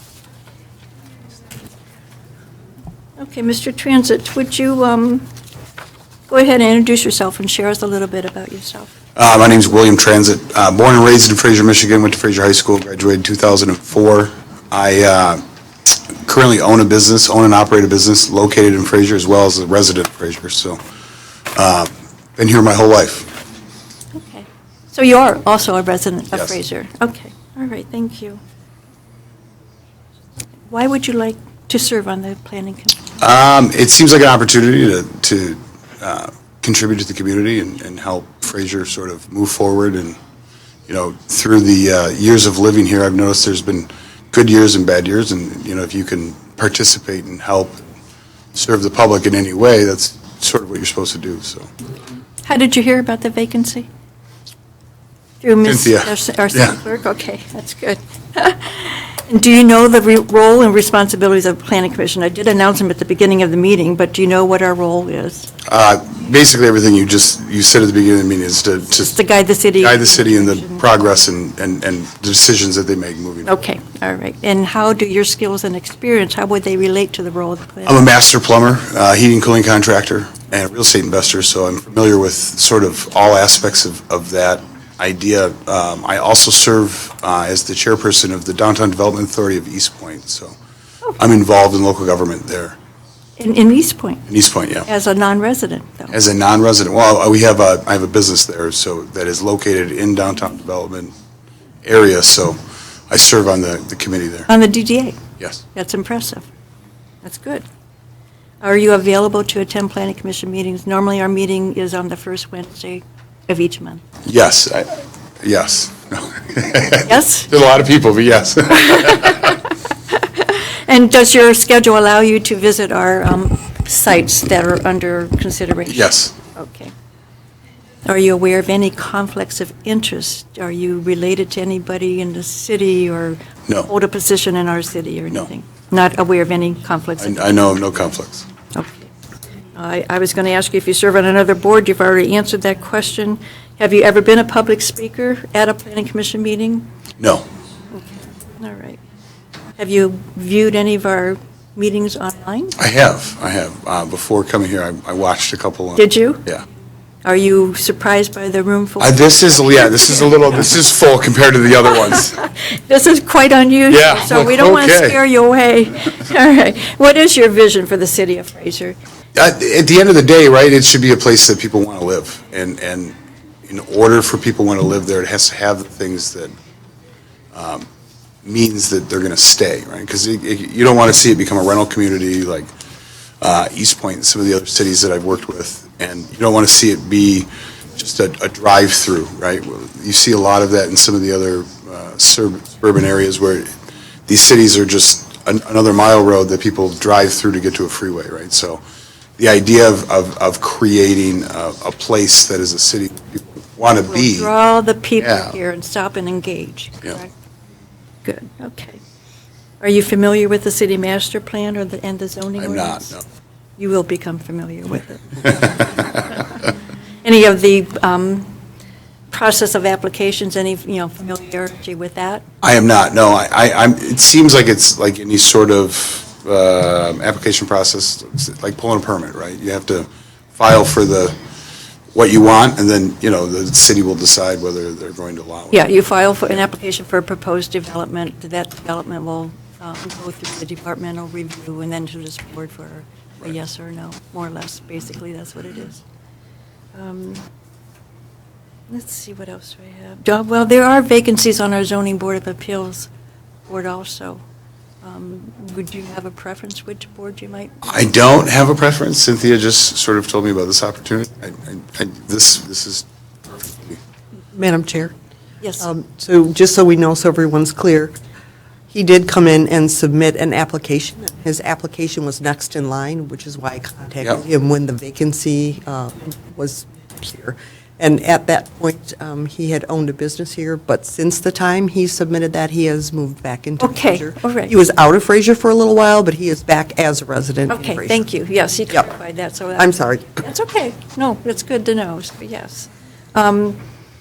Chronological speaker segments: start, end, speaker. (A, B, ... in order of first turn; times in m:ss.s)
0:03.2-0:05.2 A
0:06.3-0:08.9 A
0:09.2-0:20.8 B
0:21.5-0:23.3 B
0:24.1-0:28.4 A
0:30.7-0:33.0 A
0:33.2-0:40.2 B
0:40.9-0:47.8 B
0:48.5-0:51.7 B
0:52.4-0:53.9 A
0:55.4-1:05.5 A
0:55.6-0:56.8 B
1:05.7-1:09.1 B
1:09.0-1:10.8 A
1:09.8-1:13.5 B
1:13.4-1:18.1 A
1:17.8-1:30.5 B
1:31.2-1:32.8 B
1:33.4-1:34.2 A
1:34.3-1:34.9 B
1:34.8-1:36.2 A
1:36.1-1:41.1 B
1:41.8-1:42.6 B
1:43.1-1:44.5 B
1:44.5-1:45.2 A
1:45.7-1:46.4 A
1:47.2-1:47.6 A
1:48.6-1:54.0 A
1:54.2-1:59.6 B
1:57.0-1:57.5 A
1:58.8-2:06.9 A
2:05.9-2:06.3 B
2:08.0-2:17.5 A
2:17.2-2:18.4 B
2:18.7-2:19.1 A
2:19.7-2:26.9 A
2:27.2-2:27.4 B
2:27.9-2:29.0 A
2:29.8-2:32.8 A
2:32.8-2:36.6 B
2:36.0-2:36.4 A
2:37.2-2:39.2 A
2:39.0-2:42.4 B
2:39.8-2:40.3 A
2:42.1-2:49.0 A
2:43.9-2:45.2 B
2:49.3-2:53.1 B
2:53.7-2:56.5 B
2:57.5-2:57.8 B
2:58.4-3:02.7 B
3:03.4-3:13.7 B
3:14.3-3:18.8 B
3:19.4-3:24.5 B
3:24.0-3:27.3 A
3:25.2-3:25.5 B
3:28.2-3:29.0 A
3:29.8-3:33.2 A
3:32.6-3:33.2 B
3:33.8-3:36.5 A
3:37.2-3:38.5 A
3:39.3-3:42.4 A
3:42.6-3:51.3 B
3:52.1-3:56.5 B
3:55.7-4:06.0 A
4:06.9-4:07.4 A
4:08.9-4:13.1 A
4:13.7-4:14.4 A
4:15.0-4:17.7 A
4:17.8-4:24.0 B
4:24.5-4:25.1 C
4:25.6-4:25.9 A
4:25.8-4:28.1 C
4:28.9-4:48.3 C
4:43.8-4:44.7 A
4:47.7-4:53.8 A
4:49.8-4:50.3 C